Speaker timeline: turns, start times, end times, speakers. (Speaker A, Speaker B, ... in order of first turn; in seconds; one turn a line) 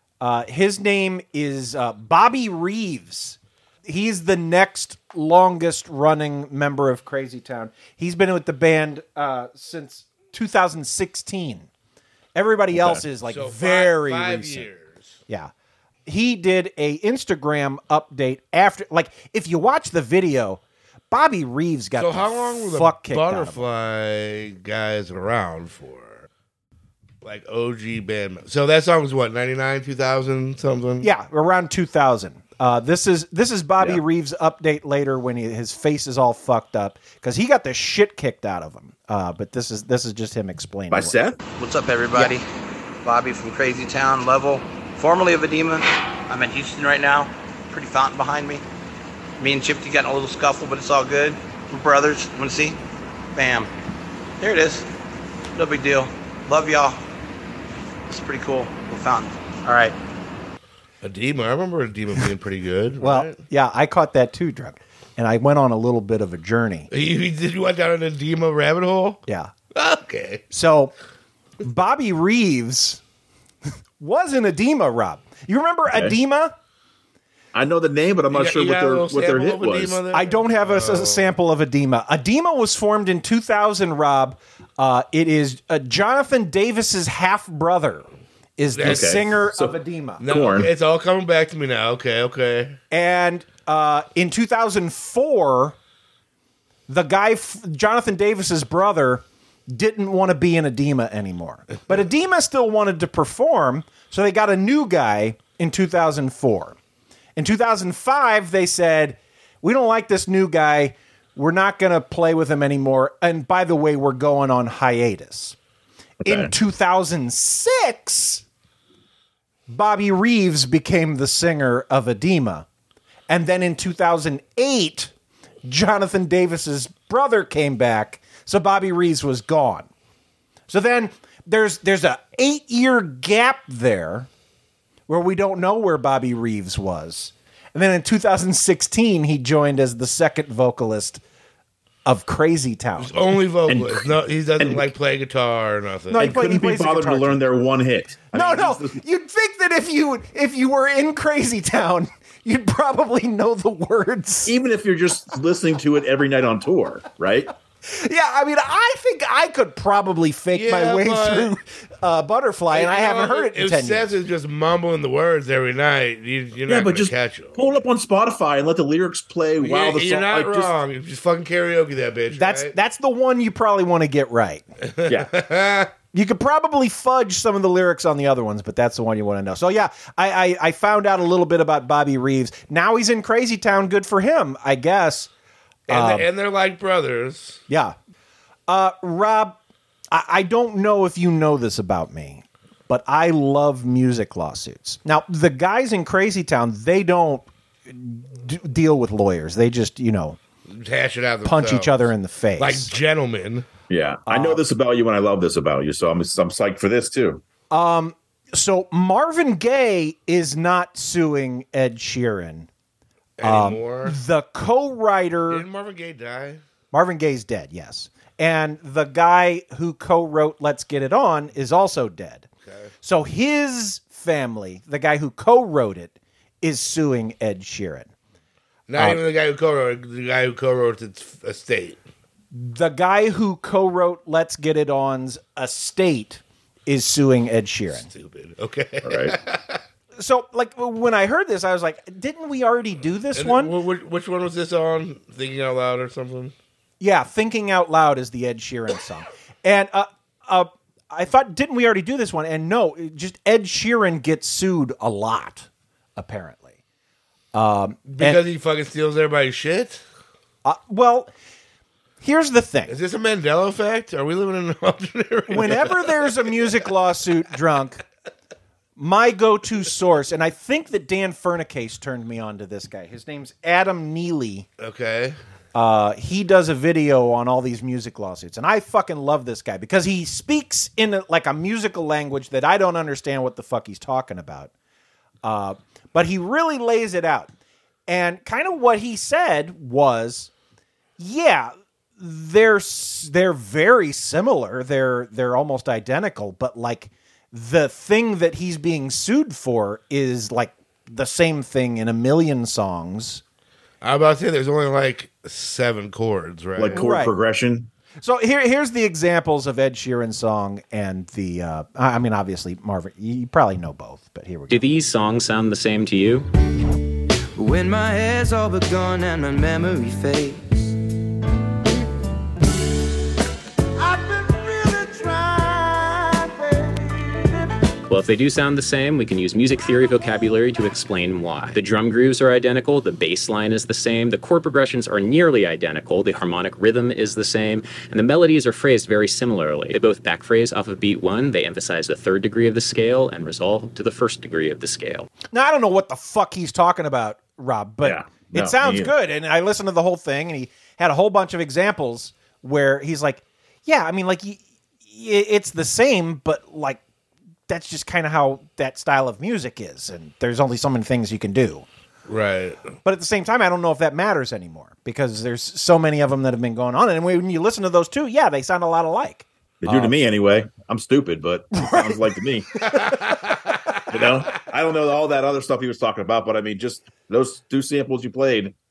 Speaker A: 0.2-11.7
Speaker A: 12.3-14.7
Speaker B: 12.7-13.0
Speaker C: 13.3-15.2
Speaker A: 16.1-23.6
Speaker C: 22.0-26.3
Speaker C: 27.2-31.1
Speaker A: 31.0-41.2
Speaker B: 40.9-41.4
Speaker D: 41.6-42.5
Speaker D: 43.0-48.6
Speaker D: 49.4-52.8
Speaker D: 53.4-53.7
Speaker D: 54.4-54.9
Speaker D: 55.5-57.0
Speaker D: 58.1-60.0
Speaker C: 61.0-63.4
Speaker A: 63.0-66.9
Speaker C: 66.9-69.2
Speaker A: 69.3-69.5
Speaker C: 69.8-70.4
Speaker A: 70.5-70.9
Speaker A: 71.6-73.0
Speaker A: 74.0-76.5
Speaker B: 75.9-76.2
Speaker B: 77.5-80.0
Speaker C: 78.3-81.3
Speaker A: 80.1-90.2
Speaker C: 88.8-89.2
Speaker B: 88.8-90.7
Speaker C: 90.2-92.8
Speaker A: 92.9-95.8
Speaker A: 96.9-106.8
Speaker A: 107.4-115.6
Speaker B: 116.2-116.5
Speaker A: 116.2-118.5
Speaker A: 119.7-122.7
Speaker A: 123.3-125.1
Speaker A: 125.7-129.9
Speaker A: 130.7-134.3
Speaker A: 135.1-141.2
Speaker A: 142.1-143.2
Speaker C: 143.0-146.3
Speaker B: 143.7-144.1
Speaker B: 144.6-144.9
Speaker A: 146.1-147.4
Speaker B: 146.2-149.0
Speaker A: 148.3-154.5
Speaker B: 154.4-157.5
Speaker A: 157.9-164.1
Speaker C: 160.5-161.5
Speaker C: 162.7-167.7
Speaker B: 166.7-170.7
Speaker C: 169.6-172.7
Speaker A: 172.3-174.7
Speaker C: 174.9-175.9
Speaker A: 176.1-185.3
Speaker C: 185.9-187.6
Speaker A: 185.9-186.3
Speaker A: 187.7-187.9
Speaker A: 188.7-189.6
Speaker A: 190.1-200.4
Speaker C: 200.7-203.7
Speaker A: 201.4-202.9
Speaker B: 203.9-207.4
Speaker A: 204.3-204.6
Speaker A: 207.7-212.7
Speaker C: 213.4-214.2
Speaker A: 213.4-215.7
Speaker C: 215.5-216.6
Speaker A: 216.9-222.5
Speaker C: 222.7-222.9
Speaker A: 223.0-228.1
Speaker C: 228.9-232.0
Speaker A: 232.5-238.1
Speaker C: 237.9-239.8
Speaker B: 239.0-239.4
Speaker A: 240.2-243.8
Speaker C: 243.3-246.5
Speaker A: 247.0-256.8
Speaker A: 257.5-258.4
Speaker C: 258.2-260.0
Speaker A: 260.6-261.3
Speaker A: 262.2-262.9
Speaker C: 262.9-266.6
Speaker A: 265.5-268.0
Speaker A: 269.0-274.7
Speaker C: 274.8-275.4
Speaker A: 275.7-284.7
Speaker A: 285.4-287.5
Speaker A: 288.1-290.5
Speaker A: 291.2-303.4
Speaker C: 304.0-307.0
Speaker B: 306.8-307.9
Speaker A: 306.9-307.3
Speaker A: 308.2-314.9
Speaker E: 314.7-316.5
Speaker F: 317.6-320.7
Speaker F: 324.0-327.7
Speaker E: 328.1-345.3
Speaker A: 345.5-357.0
Speaker B: 348.0-349.1
Speaker A: 357.7-361.9
Speaker C: 362.3-362.9
Speaker A: 363.1-370.1
Speaker B: 369.8-372.7
Speaker A: 371.8-372.2
Speaker B: 374.1-378.8